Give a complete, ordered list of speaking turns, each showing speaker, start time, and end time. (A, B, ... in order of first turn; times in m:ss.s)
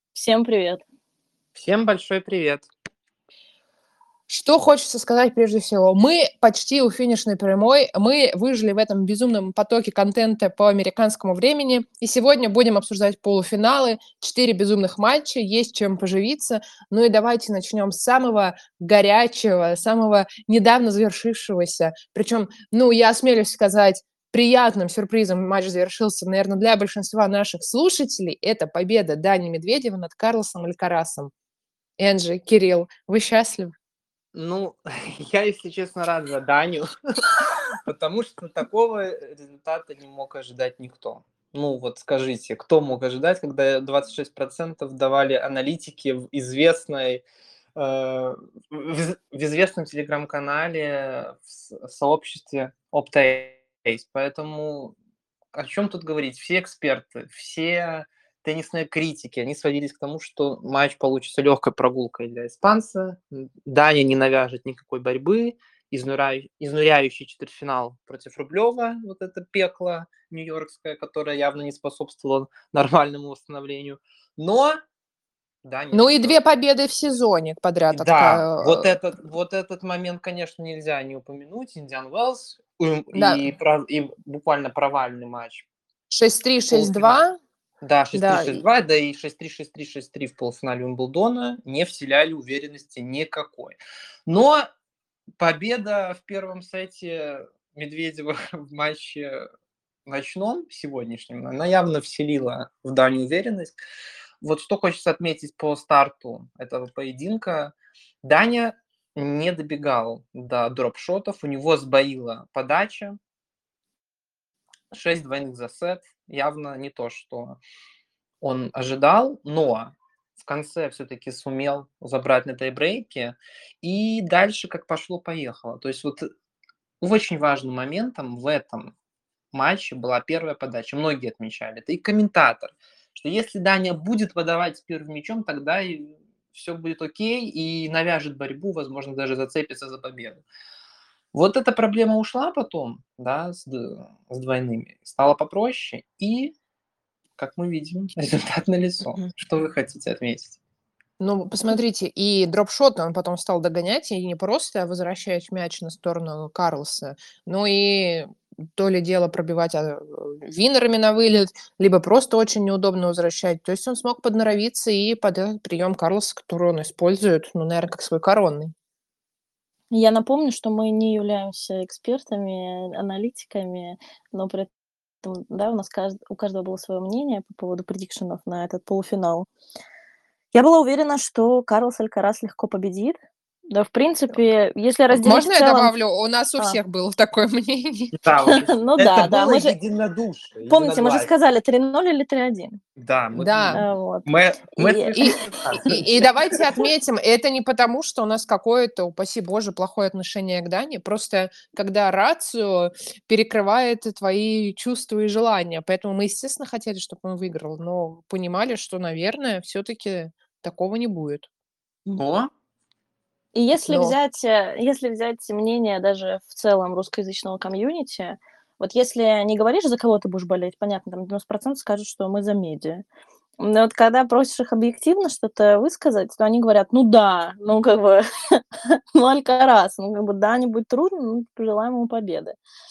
0:00.1-0:00.8 A
0:01.6-0:02.7 B
0:04.3-0:31.3 C
0:32.0-0:33.7 C
0:34.3-0:47.2 B
0:47.8-0:54.9 B
0:55.5-1:14.8 B
1:15.6-1:16.4 B
1:15.9-1:18.9 C
1:17.9-1:25.6 B
1:23.1-1:23.4 C
1:26.1-1:27.4 C
1:26.7-1:27.2 B
1:27.8-1:34.7 B
1:28.1-1:28.6 C
1:35.4-1:39.4 B
1:40.0-1:43.8 B
1:44.4-1:53.2 B
1:54.9-1:57.6 B
1:58.4-2:06.3 B
2:07.0-2:08.9 B
2:09.5-2:20.4 B
2:21.3-2:26.5 B
2:27.4-2:30.6 B
2:31.2-2:48.7 C
2:49.9-2:54.7 A
2:55.2-2:59.5 A
3:00.5-3:03.2 A
3:03.7-3:05.9 A
3:05.1-3:08.1 C
3:08.1-3:11.3 B
3:08.5-3:09.8 A
3:10.7-3:12.8 A
3:13.0-3:16.2 B
3:13.4-3:13.8 C
3:13.7-3:15.9 A
3:15.9-3:31.5 C
3:32.2-3:32.5 B
3:33.5-3:43.0 A
3:33.9-3:34.2 C
3:43.6-3:52.6 A